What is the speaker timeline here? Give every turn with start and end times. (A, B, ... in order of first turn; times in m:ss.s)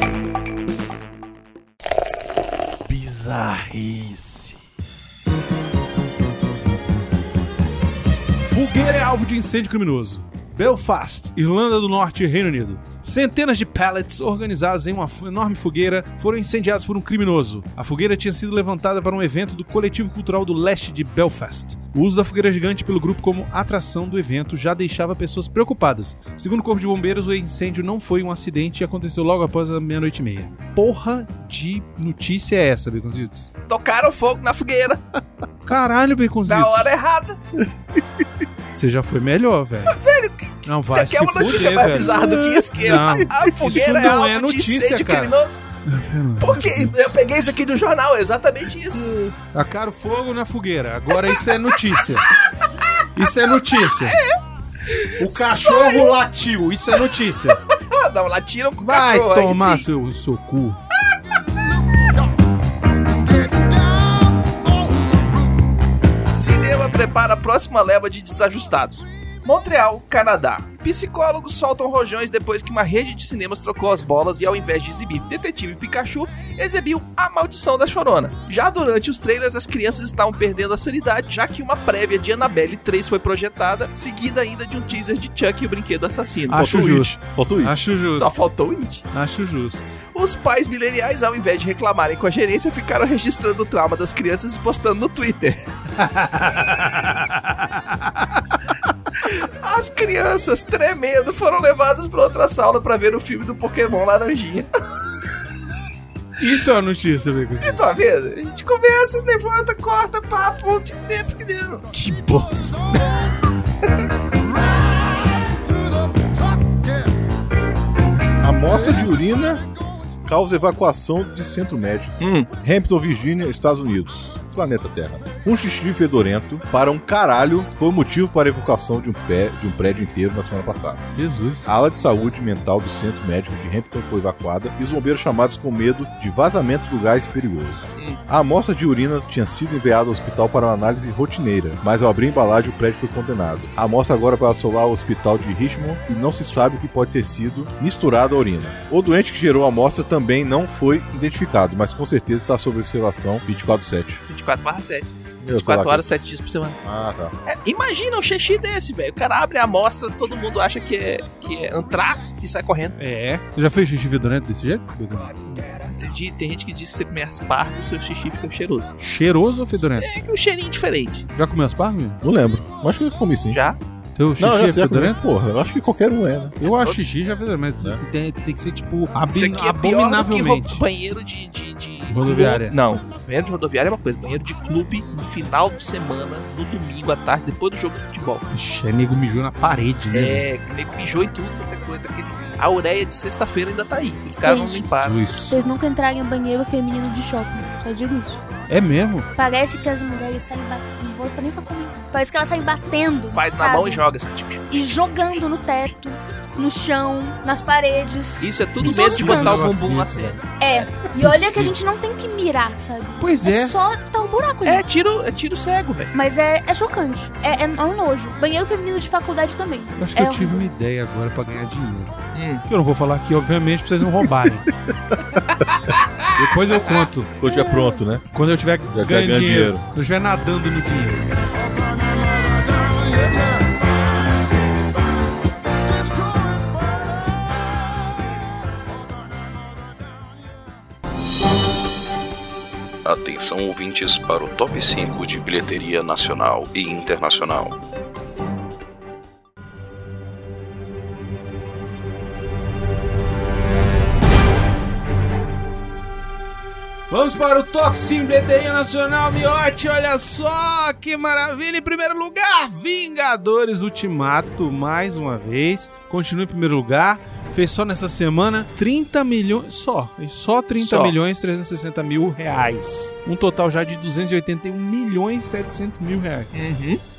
0:02.9-0:04.6 A
0:08.3-0:33.5 A
0:33.7-0:35.0 B
0:35.6-0:36.9 A
0:36.4-0:37.4 B
0:38.7-0:40.0 A
0:39.9-0:45.6 B
0:40.6-0:45.3 A
0:42.1-0:42.6 C
0:45.8-0:47.2 A
0:46.4-0:49.0 B
0:49.0-0:52.3 A
0:52.8-0:53.1 B
0:53.1-0:54.2 A
0:53.8-0:56.2 B
0:55.2-0:57.6 A
0:57.6-0:59.8 B
0:58.8-1:00.8 A
1:06.3-1:26.7 B
1:26.5-1:28.5 A
1:26.5-1:27.8 C
1:28.2-1:29.1 B
1:29.1-1:30.0 A
1:30.1-1:35.7 B
1:36.0-1:38.5 A
1:39.4-1:44.7 B
1:46.4-1:47.9 A
1:47.6-1:51.9 B
1:51.9-1:52.8 A
1:58.4-1:59.6 C
2:00.2-2:11.1 C
2:02.2-2:02.5 B
2:11.1-2:11.7 A
2:11.6-2:34.2 C
2:34.3-2:36.8 B
2:35.4-2:36.1 C
2:36.8-2:37.3 C
2:37.4-2:42.9 B
2:43.0-2:45.4 A
2:45.7-2:48.9 B
2:49.0-2:50.1 A
2:50.0-2:51.3 B
2:51.4-2:52.2 A
2:52.2-2:53.6 C
2:53.5-2:53.8 B
2:54.2-2:55.2 A
2:54.4-2:56.6 C
2:56.6-3:00.8 A
2:56.6-2:57.0 B
2:59.3-3:08.4 B
3:02.1-3:02.8 A
3:08.5-3:10.4 A
3:10.1-3:15.2 B
3:14.4-3:14.8 D
3:14.8-3:15.6 A
3:15.5-3:18.4 D
3:18.7-3:19.3 A
3:19.4-3:24.0 D
3:23.3-3:24.7 B
3:24.7-3:29.6 D
3:28.4-3:30.4 B
3:28.8-3:30.4 A
3:30.6-3:34.8 D
3:31.2-3:31.8 A
3:33.2-3:33.8 A
3:34.6-3:36.1 B
3:36.1-3:40.7 D
3:40.0-3:44.7 A
3:42.3-3:42.6 B
3:44.9-3:45.4 C
3:46.3-3:47.4 A
3:47.4-3:48.3 C
3:47.5-3:48.0 D
3:48.3-3:51.3 A
3:48.9-3:49.8 C
4:03.0-4:07.8 E
4:17.1-4:36.5 A
4:30.8-4:31.1 B
4:36.5-4:37.0 B